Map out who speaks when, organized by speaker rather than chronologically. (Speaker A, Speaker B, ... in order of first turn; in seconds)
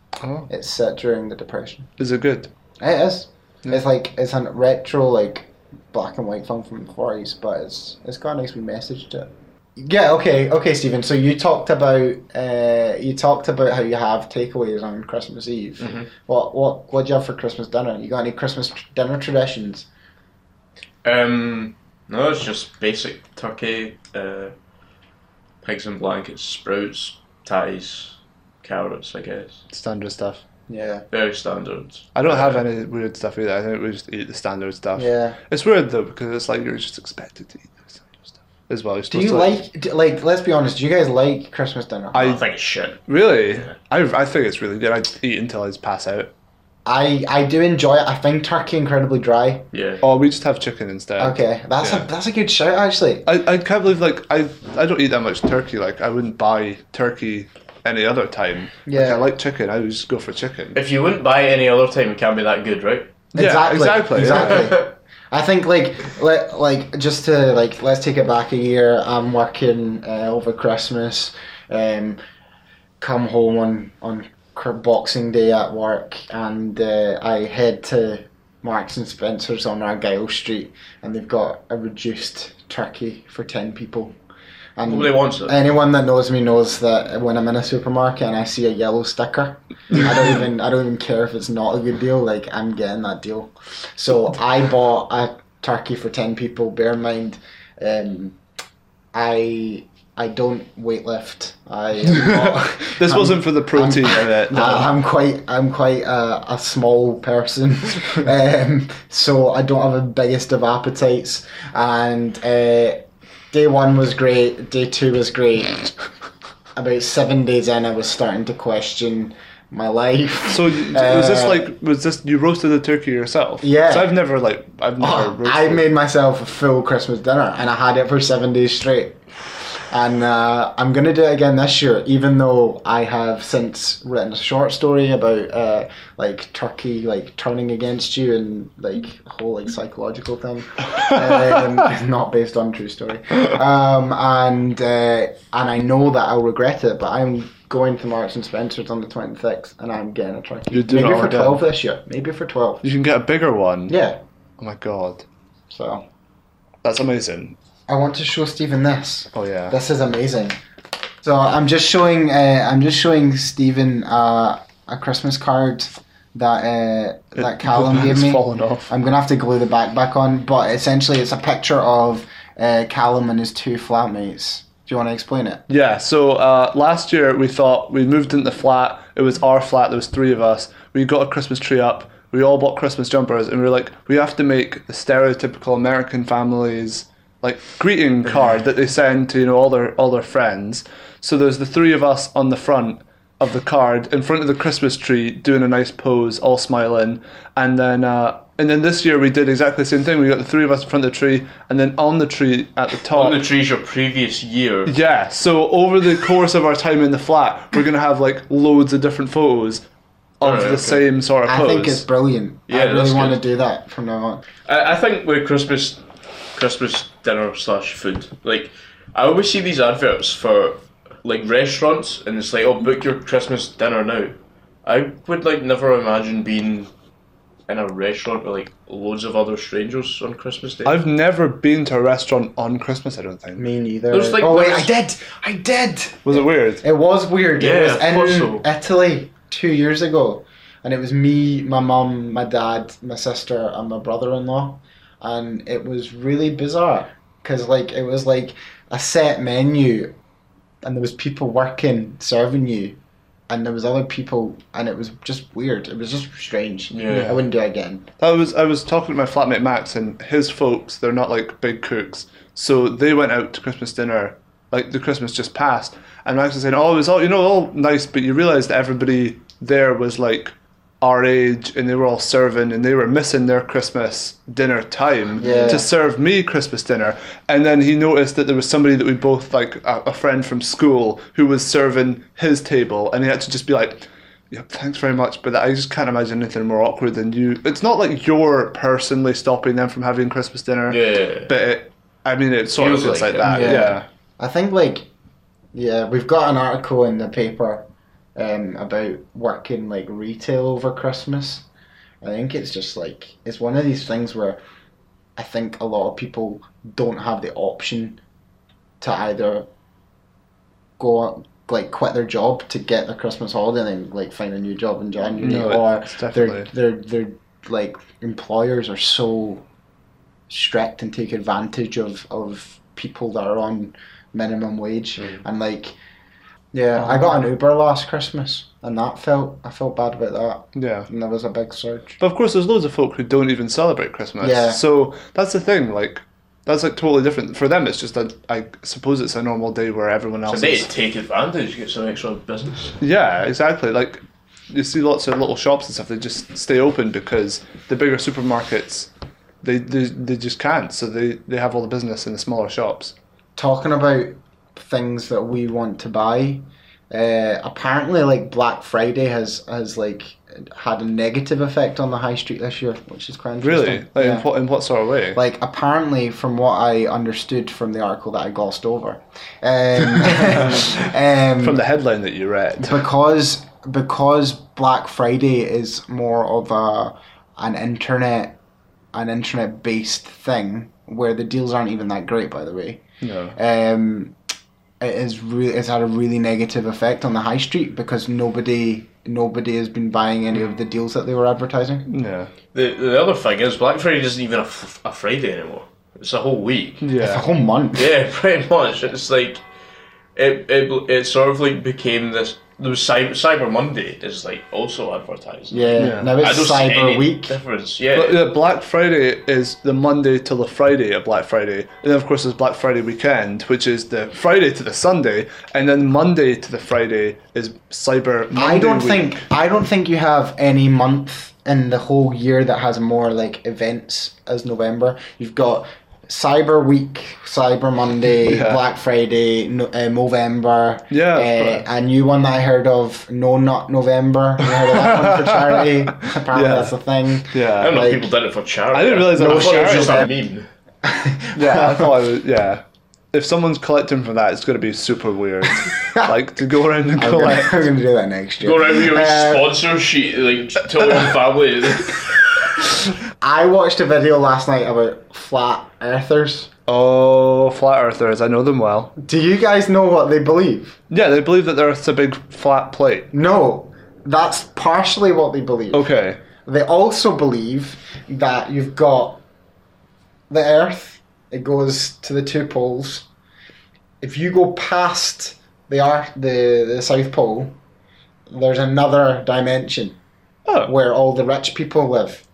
Speaker A: 0.2-0.5, 2.0-2.5, 29.7-30.4, 32.1-39.5, 42.1-42.4, 43.1-46.3, 50.0-52.1, 53.2-60.8, 63.3-64.7, 102.1-104.9, 120.5-125.8, 150.7-151.6, 152.8-154.0, 154.6-155.2, 156.8-157.6, 159.3-159.7, 167.4-168.9, 175.7-203.4, 204.8-209.8, 210.4-212.0, 230.8-233.6, 236.2-236.8, 257.1-257.4, 258.2-294.0, 315.4-316.7, 327.0-327.3, 330.8-331.1, 332.2-340.9, 343.0-349.1, 349.6-353.1, 363.6-365.4, 370.4-370.9, 371.6-373.0, 383.2-383.6, 392.1-392.5, 397.0-397.5, 406.0-406.4, 408.1-419.4, 428.5-428.8, 431.1-431.9, 434.6-436.9, 437.5-438.0, 438.9-440.3, 441.5-447.9, 456.9-459.1, 461.1-463.3, 465.9-466.4, 480.6-480.9
Speaker B: 0.5-1.9, 2.8-19.9, 30.7-31.0, 35.0-35.4, 39.1-42.4, 46.9-49.7, 51.2-53.3, 58.9-59.2, 63.3-72.2, 73.0-84.1, 84.8-98.4, 99.1-115.9, 116.8-121.7, 123.6-124.2, 125.0-129.2, 129.7-152.9, 153.9-154.2, 155.7-156.0, 157.9-160.6, 161.2-175.6, 211.4-214.4, 233.6-250.1, 250.8-253.0, 253.5-258.1, 275.4-275.9, 293.4-295.1, 295.7-301.6, 302.2-304.6, 305.4-308.2, 309.0-309.7, 311.0-319.6, 320.5-325.9, 326.7-332.2, 334.4-334.8, 353.6-364.5, 365.3-371.8, 372.8-378.6, 379.1-383.0, 383.6-384.3, 385.0-392.1, 397.2-398.1, 405.7-407.6, 418.5-438.3, 439.3-440.3, 441.0-442.2, 447.1-449.8, 453.4-456.7, 459.2-461.0, 463.3-466.1, 466.6-469.4, 470.5-473.3, 474.2-477.8, 478.5-480.2, 480.8-482.4
Speaker C: 15.8-16.1, 21.0-24.5, 25.6-29.6, 31.1-32.6, 42.1-43.7, 49.7-50.0, 60.7-63.1, 84.8-85.6, 203.1-204.9, 210.4-211.0, 212.7-213.4, 214.7-216.0, 216.5-226.9, 227.7-231.0, 234.1-234.9, 237.6-238.7, 256.9-257.4, 290.9-291.5, 292.8-293.9, 340.4-343.0, 392.7-397.1, 397.9-399.6, 400.4-408.4, 437.8-440.7, 448.6-452.4